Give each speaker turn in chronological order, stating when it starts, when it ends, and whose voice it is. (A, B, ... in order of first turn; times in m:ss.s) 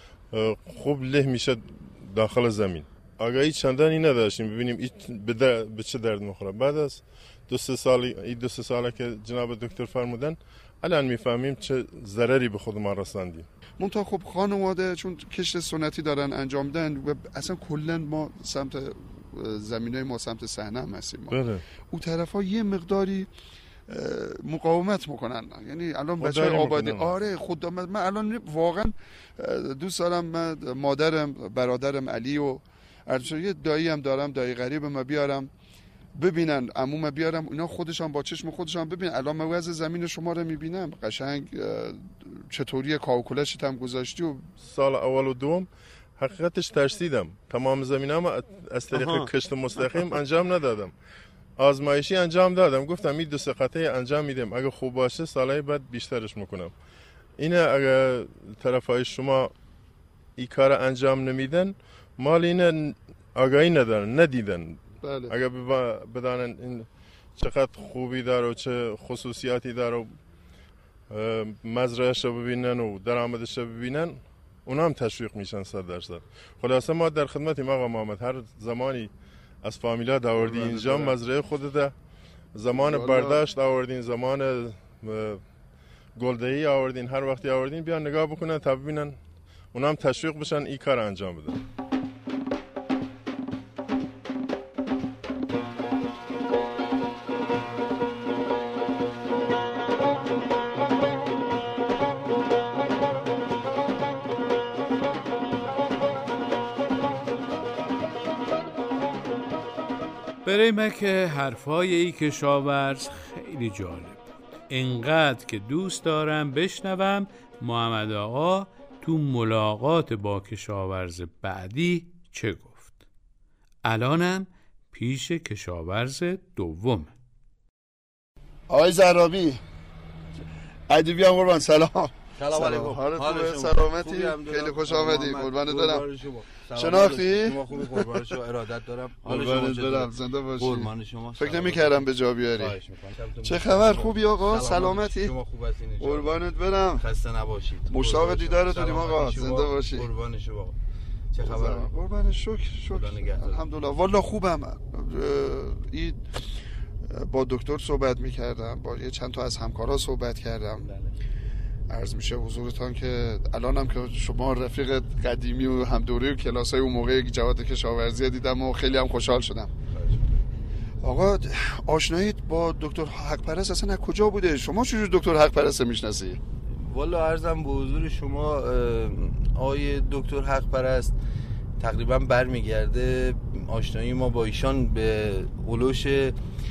0:00.3-0:13.5 A
0:13.8-0:23.3 B
0:21.3-0:21.6 A
0:23.9-0:35.5 B
0:26.2-0:27.1 A
0:36.1-0:44.5 B
0:44.6-0:50.9 A
0:48.9-0:49.3 B
0:51.6-0:56.7 A
0:57.4-0:59.5 A
1:00.4-1:10.2 A
1:05.0-1:05.3 B
1:11.1-1:19.1 A
1:19.6-1:21.9 A
1:20.3-1:21.2 B
1:22.5-1:25.4 A
1:22.7-1:23.4 B
1:26.1-1:29.2 A
1:29.7-1:31.6 A
1:50.4-2:02.9 C
2:03.8-2:07.1 C
2:08.7-2:09.6 B
2:10.9-2:16.0 B
2:12.4-2:22.0 D
2:16.7-2:18.2 B
2:19.2-2:22.8 B
2:22.6-2:30.8 D
2:23.4-2:25.3 B
2:26.0-2:27.0 B
2:27.9-2:30.1 B
2:31.3-2:31.9 D
2:31.4-2:36.2 B
2:32.9-2:33.6 D
2:37.0-2:40.9 B
2:40.8-2:41.1 D
2:41.9-2:49.7 B
2:49.9-2:50.4 D
2:51.0-2:56.4 B
2:56.7-3:01.1 D
3:01.8-3:06.4 D